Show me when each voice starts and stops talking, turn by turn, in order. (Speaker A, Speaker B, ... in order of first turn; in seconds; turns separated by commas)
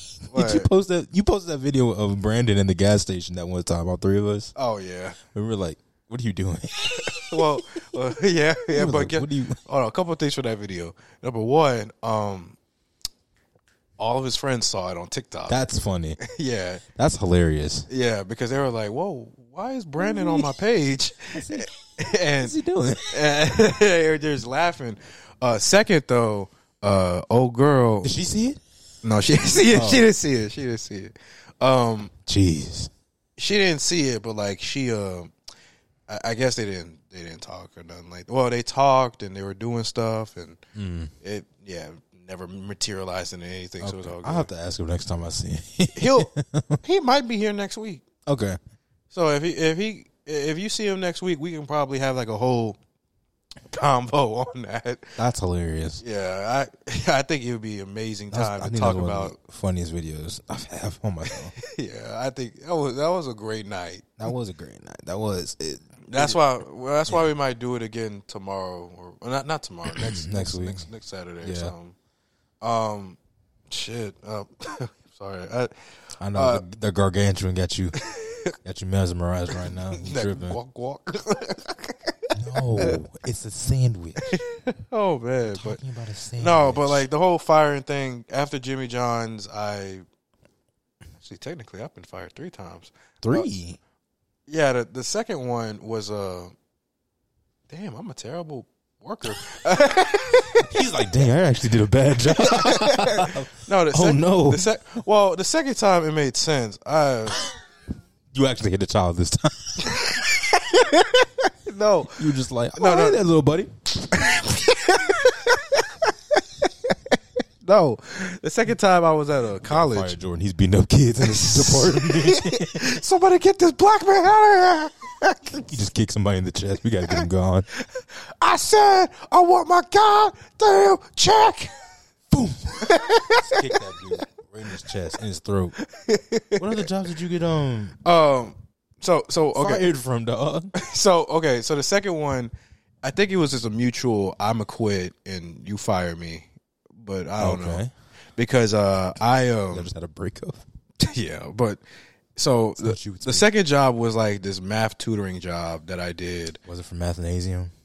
Speaker A: 0.3-4.5, Speaker B: 0.3-0.7, Speaker B: 4.5-5.2, Speaker A: 5.3-7.4, Speaker B: 7.2-12.6, Speaker A: 8.7-9.6, Speaker B: 14.0-15.6, Speaker A: 15.5-16.2, Speaker B: 16.2-16.8, Speaker A: 16.9-17.9, Speaker B: 17.9-22.6, Speaker A: 20.0-20.5, Speaker A: 21.3-21.7, Speaker A: 22.4-23.2, Speaker B: 23.1-28.1, Speaker A: 28.0-28.6, Speaker B: 29.0-32.1, Speaker A: 29.7-30.1, Speaker A: 32.3-32.9, Speaker B: 33.4-35.3, Speaker B: 36.1-40.6, Speaker A: 40.8-41.1, Speaker B: 41.2-44.5, Speaker A: 43.8-46.8, Speaker B: 46.0-46.3, Speaker B: 46.8-48.0, Speaker A: 48.3-48.6, Speaker B: 49.1-52.8, Speaker B: 53.7-55.1, Speaker A: 55.2-56.0, Speaker B: 56.0-59.4, Speaker A: 58.3-61.5, Speaker B: 61.6-64.2, Speaker A: 64.2-66.4, Speaker B: 66.1-72.0, Speaker A: 69.9-70.9, Speaker A: 71.4-71.7, Speaker B: 72.6-73.2, Speaker B: 73.7-75.7, Speaker A: 76.2-78.0, Speaker B: 76.4-76.6, Speaker B: 78.1-78.4, Speaker A: 78.6-80.6, Speaker B: 79.9-82.1, Speaker A: 82.3-84.3, Speaker B: 84.3-85.8, Speaker A: 85.5-87.1, Speaker B: 86.4-90.0, Speaker B: 91.2-93.5, Speaker A: 93.2-93.8, Speaker B: 94.5-96.5, Speaker B: 97.7-100.6, Speaker A: 100.7-104.7, Speaker B: 102.5-107.4, Speaker A: 108.3-109.8, Speaker B: 110.7-111.0, Speaker B: 111.7-112.2, Speaker A: 112.2-113.7, Speaker B: 112.8-113.2, Speaker B: 114.3-115.3, Speaker B: 117.6-120.2, Speaker A: 119.7-122.8, Speaker B: 121.2-125.7, Speaker A: 125.7-127.7, Speaker B: 128.4-131.7, Speaker A: 132.3-135.8, Speaker B: 132.9-133.5, Speaker B: 136.0-136.6, Speaker A: 136.6-138.0, Speaker B: 138.0-139.9, Speaker A: 139.6-140.7, Speaker B: 140.8-142.5, Speaker B: 143.0-146.5, Speaker B: 147.0-147.8, Speaker A: 147.4-147.9, Speaker B: 148.4-149.9, Speaker A: 149.7-150.6, Speaker B: 151.0-151.8, Speaker B: 152.4-156.6, Speaker A: 152.8-153.5, Speaker A: 156.7-157.7